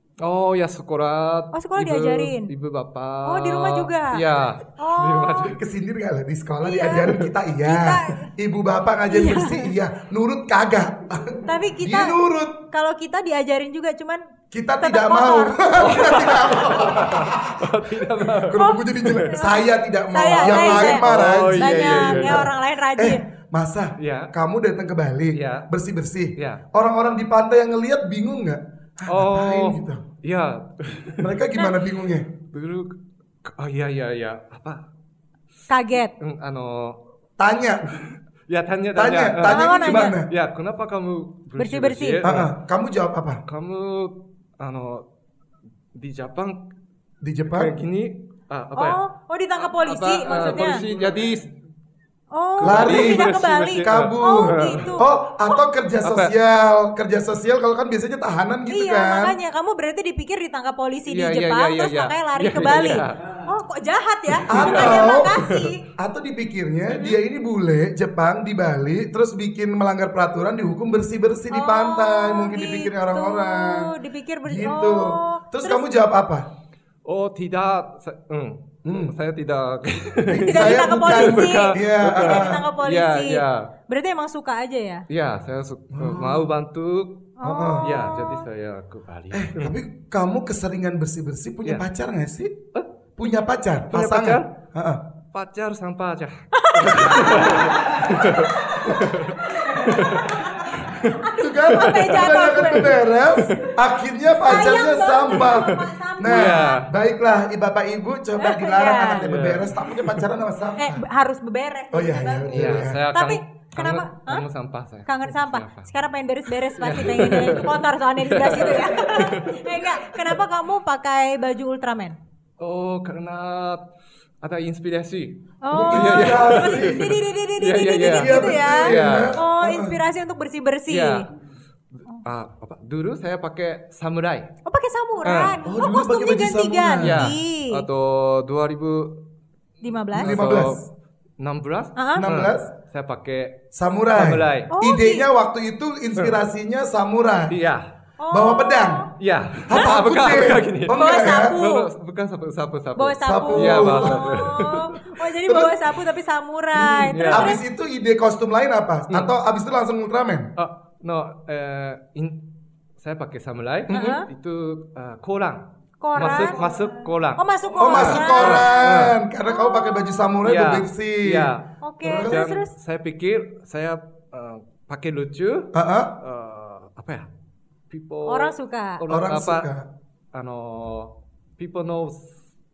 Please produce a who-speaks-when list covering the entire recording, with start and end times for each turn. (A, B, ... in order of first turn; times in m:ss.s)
0:00.2-0:05.6 A
0:01.5-0:02.5 B
0:03.2-0:04.2 B
0:04.8-0:05.5 B
0:05.4-0:12.6 C
0:06.6-0:08.3 B
0:09.1-0:09.7 B
0:11.4-0:12.2 B
0:12.7-0:14.2 B
0:14.5-0:30.0 C
0:14.8-0:16.1 B
0:15.8-0:19.4 A
0:18.6-0:23.2 B
0:20.2-0:22.5 A
0:24.0-0:24.3 A
0:25.3-0:25.7 A
0:26.4-0:26.6 A
0:29.1-0:31.4 A
0:31.2-0:32.3 C
0:32.5-0:32.9 A
0:33.4-0:34.8 A
0:35.7-0:36.1 B
0:36.2-0:37.0 A
0:37.4-0:37.9 C
0:38.1-0:42.5 A
0:38.9-0:40.3 C
0:39.4-0:40.2 B
0:41.6-0:42.2 B
0:42.2-0:43.4 C
0:43.5-0:45.0 A
0:46.0-0:46.6 A
0:47.2-0:47.7 C
0:47.5-0:49.0 A
0:48.8-0:50.8 B
0:49.6-0:51.5 A
0:52.3-0:55.6 B
0:52.6-0:54.9 A
0:52.6-0:59.4 C
0:56.0-0:56.3 A
0:58.7-1:05.8 B
1:01.1-1:03.4 A
1:04.3-1:05.7 A
1:04.4-1:16.4 C
1:11.5-1:15.9 B
1:17.0-1:23.6 A
1:18.8-1:19.1 C
1:20.3-1:22.7 C
1:20.3-1:25.0 B
1:25.1-1:27.2 A
1:25.9-1:26.5 C
1:27.4-1:28.4 B
1:27.4-1:28.0 C
1:27.8-1:29.8 A
1:29.3-1:32.5 C
1:33.2-1:35.0 C
1:33.9-1:34.5 A
1:35.3-1:42.9 A
1:36.5-1:43.4 B
1:36.8-1:38.1 C
1:38.8-1:39.2 C
1:41.4-1:51.0 C
1:43.5-1:43.7 A
1:44.4-1:46.8 B
1:45.3-1:45.7 A
1:46.3-1:46.9 A
1:48.4-1:49.3 B
1:49.1-1:50.2 A
1:50.8-1:54.4 B
1:51.9-1:53.0 C
1:52.5-1:55.9 A
1:55.0-2:02.2 B
1:56.8-1:59.6 A
2:02.6-2:03.8 A
2:04.4-2:09.4 A
2:05.6-2:11.3 B
2:05.7-2:07.2 C
2:08.1-2:10.0 C
2:10.9-2:11.3 A
2:12.1-2:14.5 A
2:14.6-2:17.8 B
2:15.2-2:15.6 A
2:15.6-2:17.3 C
2:17.0-2:19.2 A
2:19.8-2:20.4 B
2:20.1-2:20.8 C
2:20.1-2:20.8 A
2:21.4-2:23.6 A
2:22.0-2:22.2 B
2:22.2-2:22.7 C
2:23.7-2:27.6 C
2:24.1-2:24.7 A
2:24.7-2:25.3 B
2:27.5-2:27.9 A
2:28.2-2:29.1 B
2:28.3-2:29.1 C
2:29.2-2:35.1 A
2:29.7-2:31.6 C
2:30.9-2:31.9 B
2:33.0-2:37.6 B
2:33.2-2:34.5 C
2:35.4-2:35.8 C
2:36.7-2:40.5 C
2:37.1-2:37.6 A
2:40.6-2:42.4 A
2:43.0-2:49.2 A
2:43.9-2:44.2 C
2:43.9-2:44.2 B
2:46.0-2:48.9 B
2:47.8-2:52.5 C
2:49.4-2:50.3 B
2:50.4-2:51.7 A
2:51.8-2:52.7 B
2:52.2-2:57.3 A
2:55.7-2:56.1 C
2:57.9-2:59.7 A
2:58.2-2:59.0 B
2:59.1-2:59.8 C
3:00.3-3:02.3 A